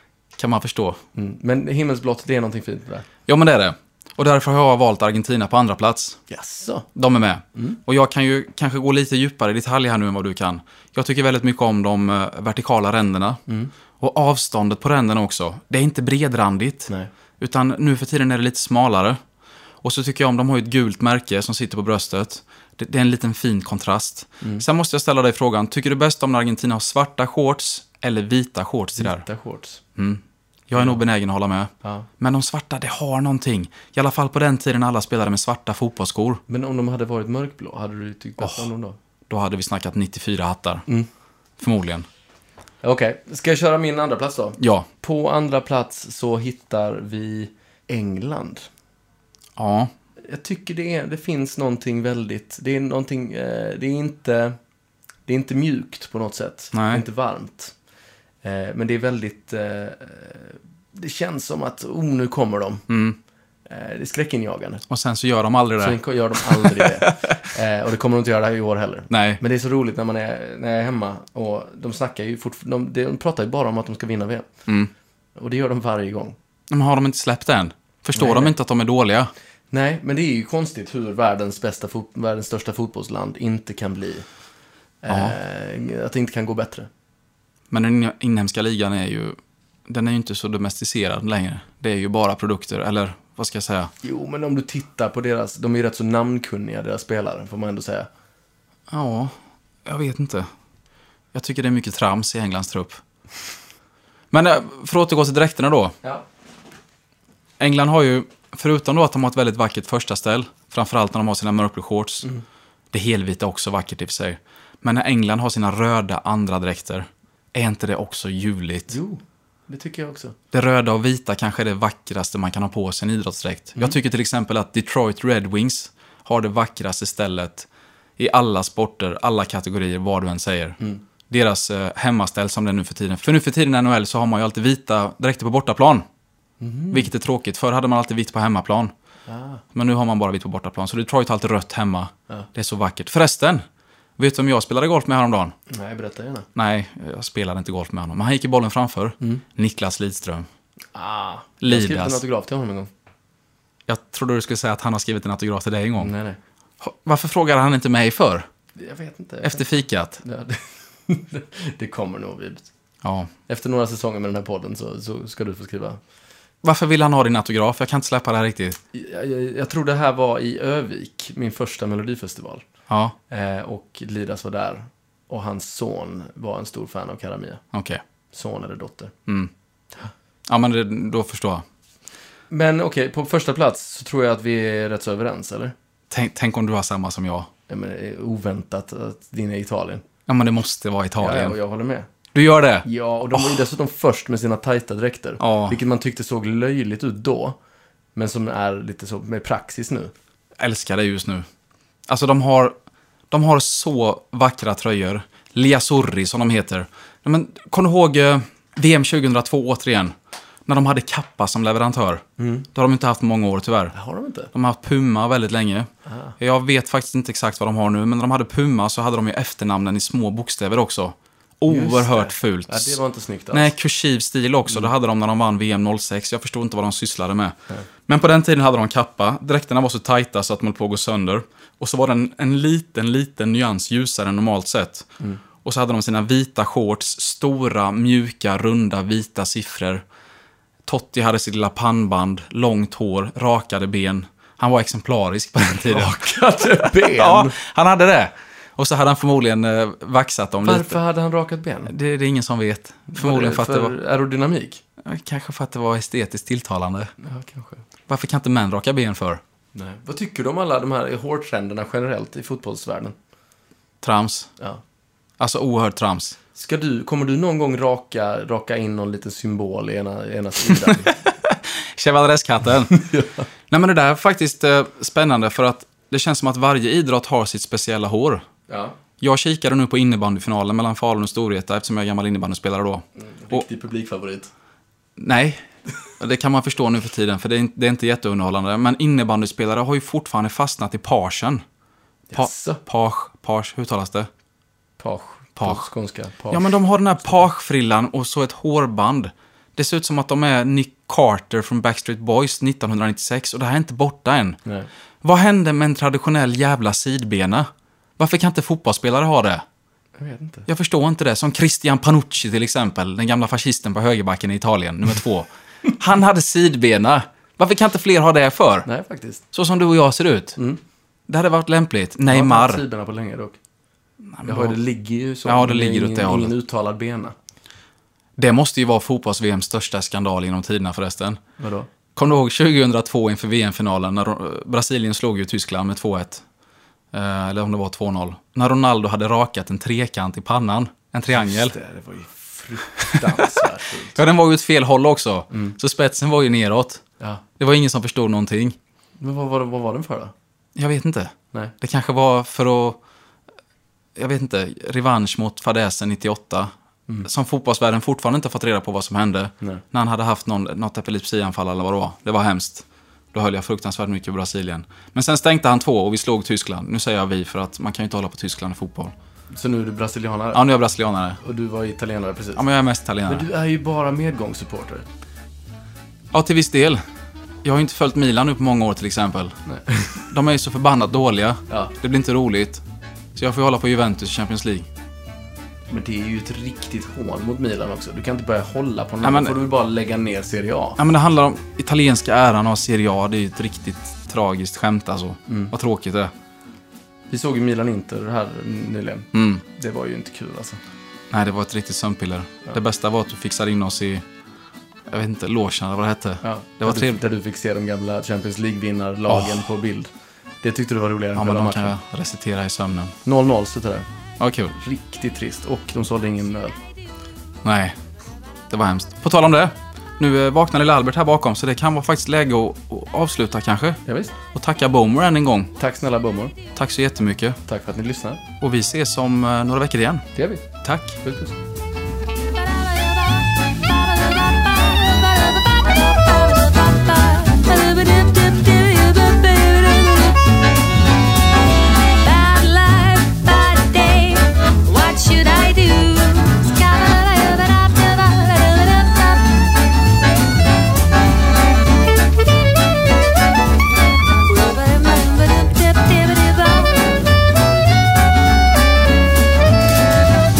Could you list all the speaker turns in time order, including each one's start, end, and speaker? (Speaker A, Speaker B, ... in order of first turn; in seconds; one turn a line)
Speaker A: 0.4-1.0
Speaker B: 1.1-3.1
Speaker A: 3.3-6.2
Speaker B: 6.3-6.9
Speaker A: 6.9-13.4
Speaker A: 14.0-19.2
Speaker A: 19.8-29.2
Speaker B: 29.0-29.8
Speaker A: 29.9-36.4
Speaker B: 36.5-39.0
Speaker A: 38.4-38.7
Speaker A: 39.3-40.8
Speaker A: 41.6-42.0
Speaker B: 42.8-48.7
Speaker A: 44.6-44.9
Speaker A: 49.6-49.9
Speaker B: 50.2-54.6
Speaker B: 55.2-57.7
Speaker A: 56.7-57.0
Speaker B: 58.4-62.9
Speaker A: 62.9-63.2
Speaker B: 63.7-64.8
Speaker A: 64.9-67.2
Speaker B: 65.8-74.5
Speaker A: 69.1-69.4
Speaker B: 75.3-76.3
Speaker A: 76.7-79.3
Speaker B: 78.1-78.5
Speaker B: 79.7-84.2
Speaker B: 85.0-86.9
Speaker A: 85.1-85.3
Speaker A: 87.7-93.9
Speaker B: 94.0-98.1
Speaker A: 98.9-100.5
Speaker A: 101.3-103.0
Speaker A: 104.3-105.9
Speaker A: 107.6-112.3
Speaker A: 112.9-118.9
Speaker B: 118.9-120.3
Speaker A: 120.5-130.8
Speaker A: 131.3-136.0
Speaker B: 136.6-137.1
Speaker A: 136.9-138.9
Speaker B: 139.3-139.6
Speaker A: 139.7-143.6
Speaker A: 144.2-145.5
Speaker B: 145.7-146.5
Speaker A: 146.5-150.5
Speaker B: 150.9-152.9
Speaker A: 151.6-152.2
Speaker A: 153.9-156.1
Speaker B: 156.0-156.4
Speaker A: 156.8-158.4
Speaker B: 158.8-159.7
Speaker A: 159.4-160.2
Speaker B: 160.2-162.7
Speaker A: 163.0-163.3
Speaker B: 163.5-166.0
Speaker A: 166.6-168.8
Speaker B: 168.9-172.7
Speaker A: 172.9-173.1
Speaker B: 173.3-177.6
Speaker A: 177.7-178.0
Speaker B: 178.3-179.1
Speaker A: 180.5-181.6
Speaker B: 182.5-185.7
Speaker A: 186.1-187.5
Speaker B: 187.7-190.0
Speaker A: 190.3-191.6
Speaker B: 191.2-192.1
Speaker A: 192.3-193.6
Speaker B: 192.8-197.6
Speaker A: 195.4-195.8
Speaker B: 198.2-200.1
Speaker A: 200.6-201.4
Speaker A: 202.1-202.7
Speaker A: 203.3-210.1
Speaker A: 210.7-213.9
Speaker B: 212.4-212.7
Speaker B: 213.9-214.5
Speaker A: 214.5-215.9
Speaker B: 216.1-216.3
Speaker A: 216.4-223.0
Speaker B: 221.7-223.7
Speaker A: 223.5-227.6
Speaker A: 228.1-240.0
Speaker A: 240.8-251.0
Speaker B: 245.8-247.6
Speaker B: 250.6-251.9
Speaker A: 251.9-253.9
Speaker B: 253.1-254.8
Speaker A: 255.0-257.1
Speaker B: 257.2-257.8
Speaker A: 258.1-259.4
Speaker B: 259.7-263.1
Speaker A: 264.0-264.5
Speaker A: 265.4-266.4
Speaker B: 266.5-271.1
Speaker A: 270.7-273.1
Speaker B: 272.9-273.4
Speaker A: 273.7-278.4
Speaker B: 278.7-278.9
Speaker A: 279.2-283.6
Speaker B: 283.2-284.5
Speaker A: 285.2-285.6
Speaker A: 286.2-291.6
Speaker B: 292.3-292.8
Speaker A: 292.3-294.3
Speaker B: 295.0-296.7
Speaker A: 295.6-295.8
Speaker A: 296.5-304.6
Speaker A: 305.2-309.6
Speaker B: 310.2-310.7
Speaker A: 310.7-318.9
Speaker B: 318.9-319.4
Speaker A: 319.5-320.6
Speaker A: 321.3-322.8
Speaker B: 322.3-323.6
Speaker A: 324.3-324.8
Speaker B: 324.4-327.3
Speaker A: 325.4-326.5
Speaker A: 328.4-331.4
Speaker B: 331.6-331.9
Speaker A: 332.1-336.4
Speaker A: 337.1-341.7
Speaker B: 341.4-344.2
Speaker A: 343.0-347.0
Speaker B: 345.5-345.8
Speaker A: 347.6-348.8
Speaker B: 349.2-350.3
Speaker A: 350.8-353.0
Speaker A: 354.1-356.7
Speaker A: 357.2-369.1
Speaker B: 369.5-370.6
Speaker A: 370.5-371.4
Speaker B: 371.4-372.6
Speaker A: 372.6-373.5
Speaker B: 373.2-375.1
Speaker A: 376.3-377.0
Speaker A: 377.6-379.6
Speaker B: 379.6-380.2
Speaker A: 380.2-382.8
Speaker A: 383.4-384.9
Speaker B: 385.9-391.0
Speaker A: 389.2-389.6
Speaker A: 391.0-396.3
Speaker B: 395.5-395.7
Speaker B: 397.3-400.8
Speaker A: 399.3-399.6
Speaker A: 401.3-404.2
Speaker A: 405.1-407.2
Speaker B: 406.4-411.9
Speaker A: 409.3-409.6
Speaker A: 411.3-413.1
Speaker B: 413.2-414.1
Speaker A: 414.4-414.7
Speaker B: 414.7-416.8
Speaker A: 417.6-417.9
Speaker A: 418.7-424.0
Speaker B: 424.1-424.3
Speaker A: 424.5-425.7
Speaker B: 425.8-426.5
Speaker A: 426.7-427.6
Speaker B: 427.6-428.4
Speaker A: 428.6-430.3
Speaker B: 430.3-430.7
Speaker A: 430.8-431.2
Speaker B: 431.2-431.5
Speaker C: 432.5-440.5
Speaker C: 441.8-449.7
Speaker C: 454.4-457.2